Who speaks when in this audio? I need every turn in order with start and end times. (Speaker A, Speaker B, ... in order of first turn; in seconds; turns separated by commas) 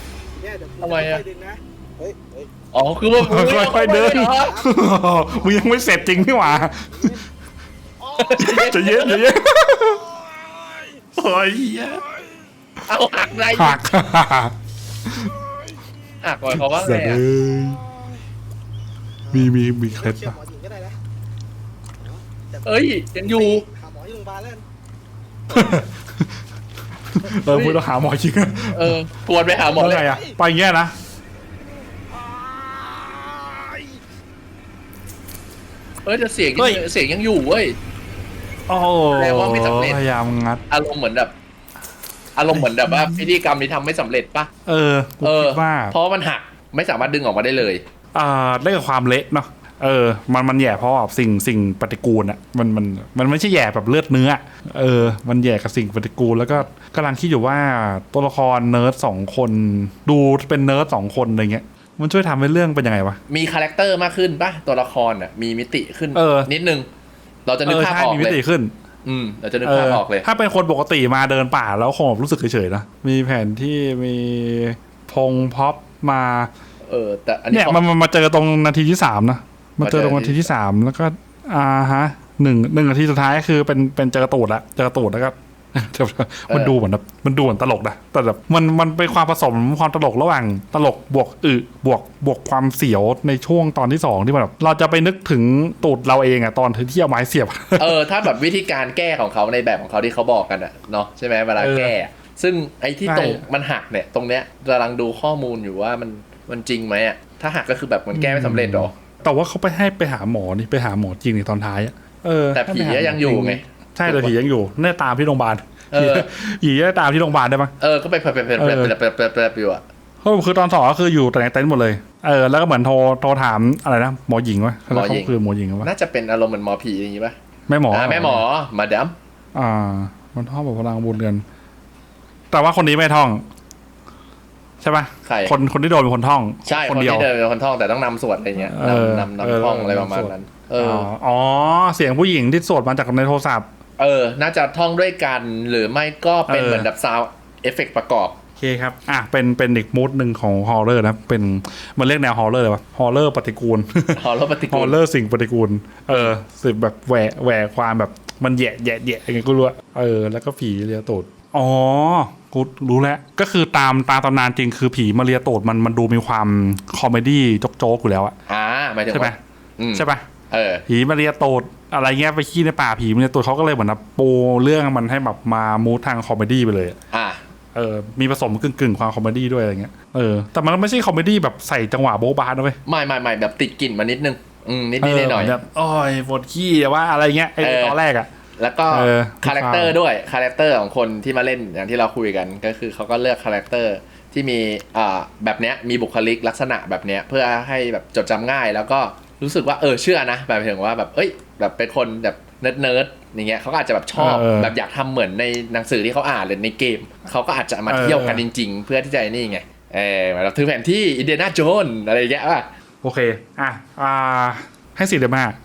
Speaker A: 0.4-2.5, Speaker B: 0.8-1.2, Speaker B: 2.7-4.6, Speaker C: 3.1-7.2, Speaker A: 3.9-6.4, Speaker A: 6.9-7.2, Speaker A: 8.0-9.1, Speaker B: 8.2-9.2, Speaker C: 8.4-10.1, Speaker A: 10.1-11.0, Speaker C: 11.2-12.0, Speaker B: 12.8-13.8, Speaker C: 13.5-14.5, Speaker C: 15.1-15.3, Speaker B: 16.2-17.2, Speaker C: 16.5-17.9, Speaker A: 19.2-21.0, Speaker C: 19.3-20.4, Speaker A: 22.0-22.7, Speaker B: 22.6-23.6, Speaker A: 23.2-24.6, Speaker C: 25.5-26.3, Speaker C: 27.1-29.0, Speaker B: 27.4-27.8, Speaker B: 28.7-30.1, Speaker C: 29.7-30.9, Speaker A: 29.9-30.3, Speaker A: 32.1-33.9, Speaker B: 36.0-37.8, Speaker C: 36.6-36.8, Speaker C: 38.7-40.6, Speaker B: 39.1-40.0, Speaker B: 40.7-41.3, Speaker B: 42.4-44.5, Speaker C: 42.9-43.1, Speaker C: 44.6-45.9, Speaker B: 45.2-47.8, Speaker C: 48.1-63.2, Speaker B: 63.3-66.9, Speaker C: 66.1-66.5, Speaker B: 67.5-68.4, Speaker C: 67.6-68.7, Speaker B: 69.0-70.3, Speaker C: 69.6-76.5, Speaker B: 76.8-77.8, Speaker C: 77.5-98.0, Speaker B: 79.8-80.5, Speaker B: 86.5-86.7, Speaker B: 97.8-108.9, Speaker C: 101.6-102.0, Speaker C: 103.0-103.4, Speaker C: 108.1-117.7, Speaker B: 112.5-114.3, Speaker B: 115.9-116.3, Speaker B: 117.8-119.8, Speaker C: 118.6-118.9, Speaker C: 120.2-125.9, Speaker B: 124.9-127.3, Speaker C: 127.7-128.4, Speaker B: 127.9-129.1, Speaker C: 129.5-131.4, Speaker C: 132.5-133.4, Speaker C: 134.8-137.3, Speaker B: 135.2-135.6, Speaker B: 136.7-141.1, Speaker C: 138.6-143.7, Speaker B: 144.0-148.3, Speaker C: 146.5-146.9, Speaker C: 148.6-168.3, Speaker B: 154.1-155.0, Speaker B: 168.5-170.8, Speaker C: 169.1-169.4, Speaker C: 169.9-170.2, Speaker C: 170.9-177.0, Speaker B: 177.1-177.4, Speaker C: 177.7-182.8, Speaker B: 182.8-185.6, Speaker C: 185.0-188.3, Speaker B: 187.6-188.0, Speaker B: 188.6-212.7, Speaker C: 188.9-189.9, Speaker C: 204.2-204.7, Speaker C: 207.9-208.4, Speaker C: 213.0-215.6